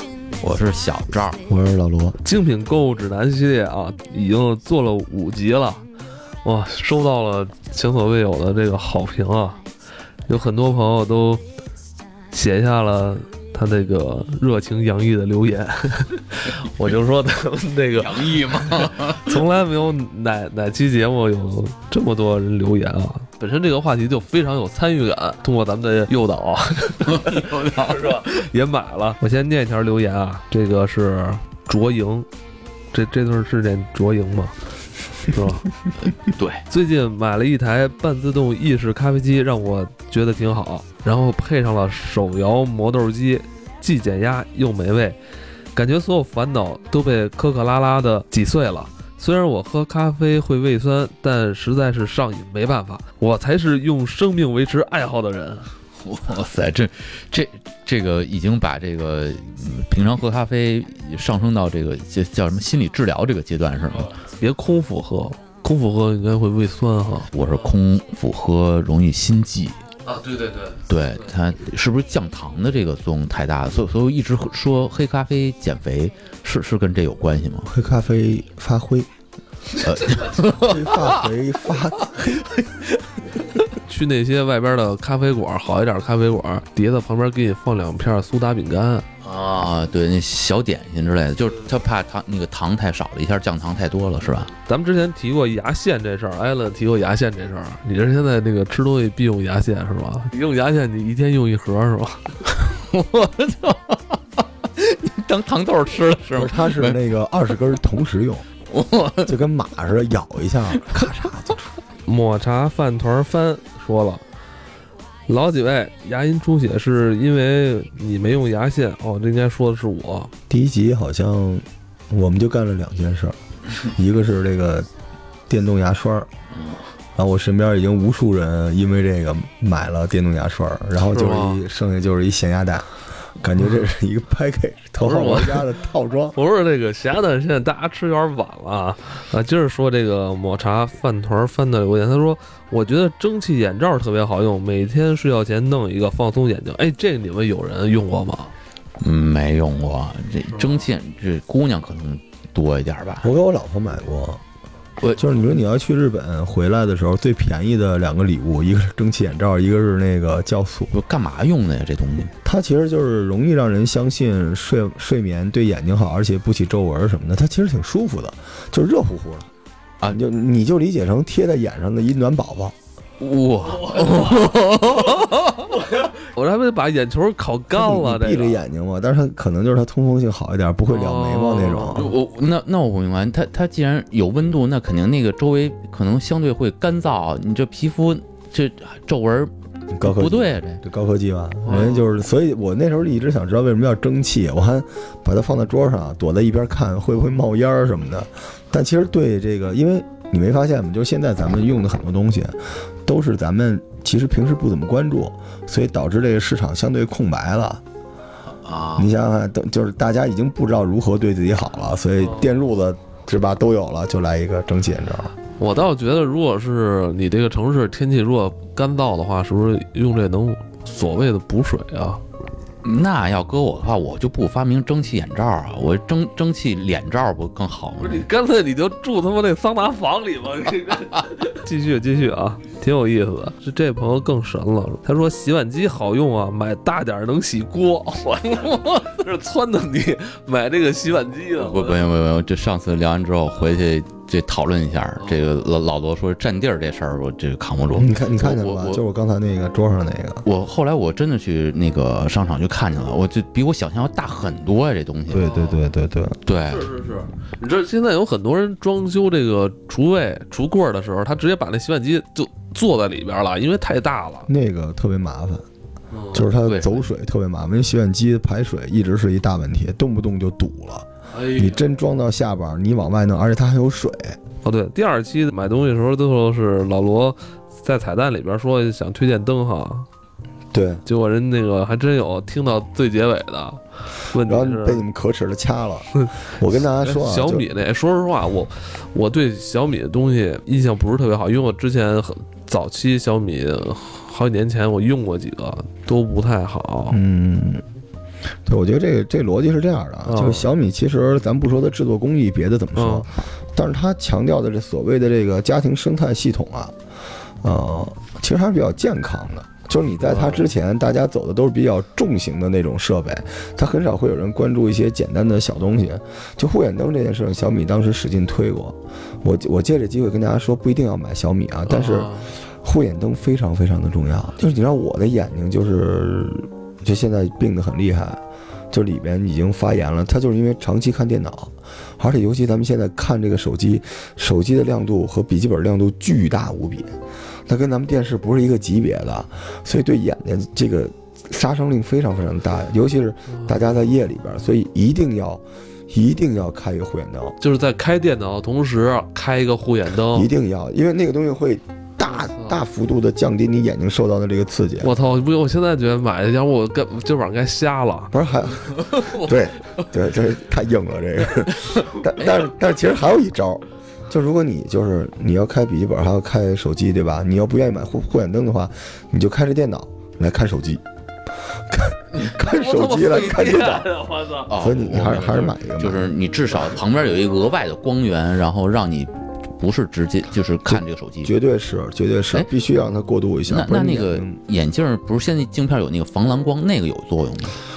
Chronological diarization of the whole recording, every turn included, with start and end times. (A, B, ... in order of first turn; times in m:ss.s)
0:00.4-0:01.4 A
0:01.5-0:02.2 B
0:02.2-0:05.8 C
0:06.4-0:09.6 C
0:10.3-0:11.4 C
0:12.3-0:32.3 C
0:18.0-0:19.4 A
0:27.1-0:28.2 A
0:32.9-0:34.6 C
0:35.2-0:35.7 C
0:36.2-0:36.6 A
0:36.7-0:45.2 C
0:45.8-0:55.7 C
0:56.0-1:04.1 A
1:04.2-1:07.3 C
1:07.3-1:09.8 A
1:10.1-1:10.8 C
1:10.9-1:17.7 A
1:17.7-1:19.1 B
1:19.8-1:21.3 A
1:20.6-1:22.5 B
1:22.0-1:23.0 A
1:23.8-1:29.1 C
1:29.2-1:34.5 A
1:34.7-1:42.4 C
1:42.6-1:47.0 A
1:46.4-1:48.5 B
1:48.7-1:49.4 A
1:49.3-1:51.8 B
1:52.1-1:54.2 C
1:55.3-2:00.3 C
2:00.5-2:04.9 B
2:05.5-2:06.3 B
2:07.2-2:16.4 B
2:11.1-2:11.6 C
2:15.0-2:15.7 C
2:16.3-2:28.5 C
2:29.0-2:33.3 A
2:33.2-2:34.4 B
2:35.0-2:35.3 A
2:35.2-2:40.9 B
2:40.9-2:42.3 A
2:42.4-2:49.5 B
2:50.0-2:52.8 B
2:53.2-2:55.8 A
2:56.1-2:58.6 C
2:57.8-3:02.1 B
3:00.9-3:02.1 C
3:01.9-3:10.8 A
3:09.9-3:27.8 B
3:11.6-3:12.1 C
3:28.6-3:29.1 A
3:29.0-3:35.3 B
3:32.2-3:32.5 C
3:35.6-3:42.2 C
3:42.8-3:48.3 A
3:48.0-4:02.0 C
4:01.6-4:09.0 A
4:07.9-4:10.5 B
4:10.4-4:15.5 A
4:15.3-4:16.4 B
4:15.3-4:15.8 C
4:16.5-4:16.9 A
4:16.6-4:24.5 C
4:24.5-4:25.7 B
4:26.1-4:26.5 C
4:26.3-4:34.4 B
4:26.6-4:27.0 A
4:31.3-4:31.8 C
4:34.6-4:40.1 C
4:40.7-4:41.0 B
4:41.0-4:45.0 C
4:44.4-4:47.6 B
4:46.9-4:57.2 C
4:57.1-4:57.8 B
4:58.7-5:07.0 B
5:00.3-5:00.7 C
5:03.0-5:03.3 C
5:07.6-5:47.6 B
5:10.2-5:10.6 C
5:21.9-5:22.5 C
5:47.6-5:50.5 C
5:50.3-5:55.2 B
5:52.2-5:52.8 C
5:55.0-5:58.3 C
5:58.3-6:11.0 B
6:11.9-6:14.1 B
6:12.6-6:14.7 C
6:14.7-6:21.5 A
6:14.7-6:16.4 B
6:20.9-6:24.6 B
6:23.7-6:27.8 A